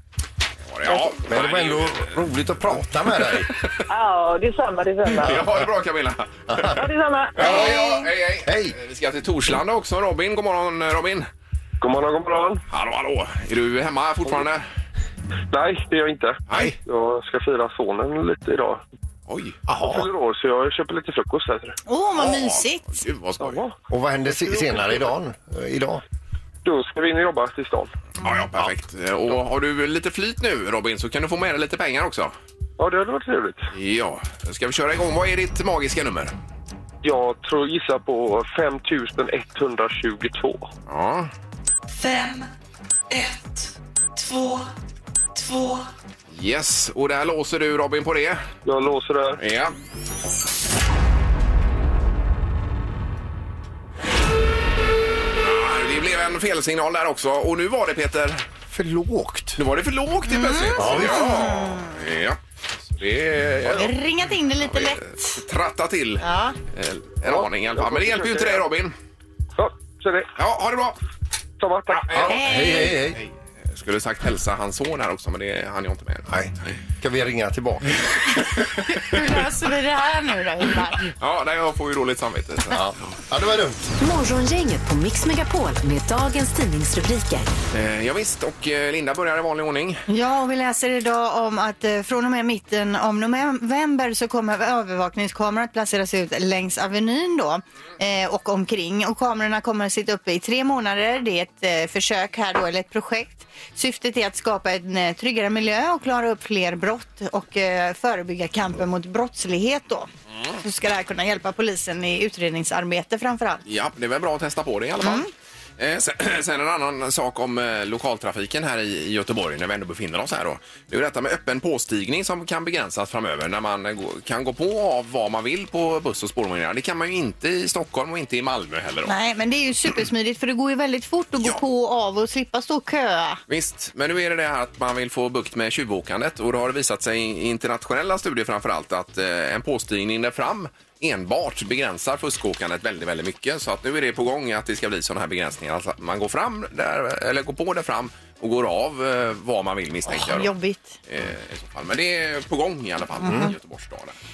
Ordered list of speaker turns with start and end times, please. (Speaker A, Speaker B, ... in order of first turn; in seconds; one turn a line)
Speaker A: 0.7-2.1
Speaker B: 1.3-3.5
Speaker A: 3.3-3.7
Speaker C: 3.9-5.5
Speaker A: 5.2-6.7
Speaker B: 6.5-6.9
Speaker C: 6.7-7.7
Speaker A: 7.3-11.3
Speaker D: 7.4-8.1
Speaker B: 8.4-8.8
Speaker E: 11.8-12.6
Speaker A: 12.7-14.6
Speaker E: 15.5-18.8
Speaker A: 16.5-16.7
Speaker A: 19.3-19.6
Speaker B: 19.7-20.1
Speaker E: 19.8-21.8
Speaker D: 21.9-23.0
Speaker A: 22.2-23.6
Speaker E: 23.4-23.7
Speaker B: 23.9-26.0
Speaker E: 26.6-27.9
Speaker A: 28.2-32.3
Speaker E: 32.8-33.7
Speaker A: 33.7-36.3
Speaker E: 37.0-40.7
Speaker A: 40.9-41.3
Speaker F: 42.0-42.5
Speaker F: 43.1-44.7
Speaker F: 45.3-45.9
Speaker A: 46.3-48.4
Speaker E: 48.6-49.4
Speaker A: 49.4-49.7
Speaker A: 55.4-58.4
Speaker B: 58.7-59.6
Speaker A: 59.6-62.4
Speaker D: 60.3-62.0
Speaker B: 60.8-61.5
Speaker A: 62.9-64.0
Speaker D: 63.7-65.4
Speaker A: 64.6-68.9
Speaker D: 66.2-66.6
Speaker E: 67.2-68.7
Speaker E: 69.6-70.3
Speaker A: 70.3-71.0
Speaker E: 71.6-72.3
Speaker A: 71.9-76.7
Speaker B: 72.1-73.2
Speaker D: 72.2-73.0
Speaker B: 76.3-78.0
Speaker A: 78.5-78.9
Speaker D: 78.9-81.0
Speaker A: 81.0-82.9
Speaker B: 82.7-83.9
Speaker G: 84.0-87.5
Speaker A: 87.7-90.0
Speaker D: 90.1-110.1
Speaker D: 110.6-113.6
Speaker A: 113.7-115.3
Speaker D: 115.0-115.3
Speaker A: 115.8-129.1
Speaker D: 129.1-133.4
Speaker A: 133.5-150.5
Speaker D: 150.1-151.0
Speaker A: 151.1-154.1
Speaker B: 153.2-153.5
Speaker D: 153.2-153.5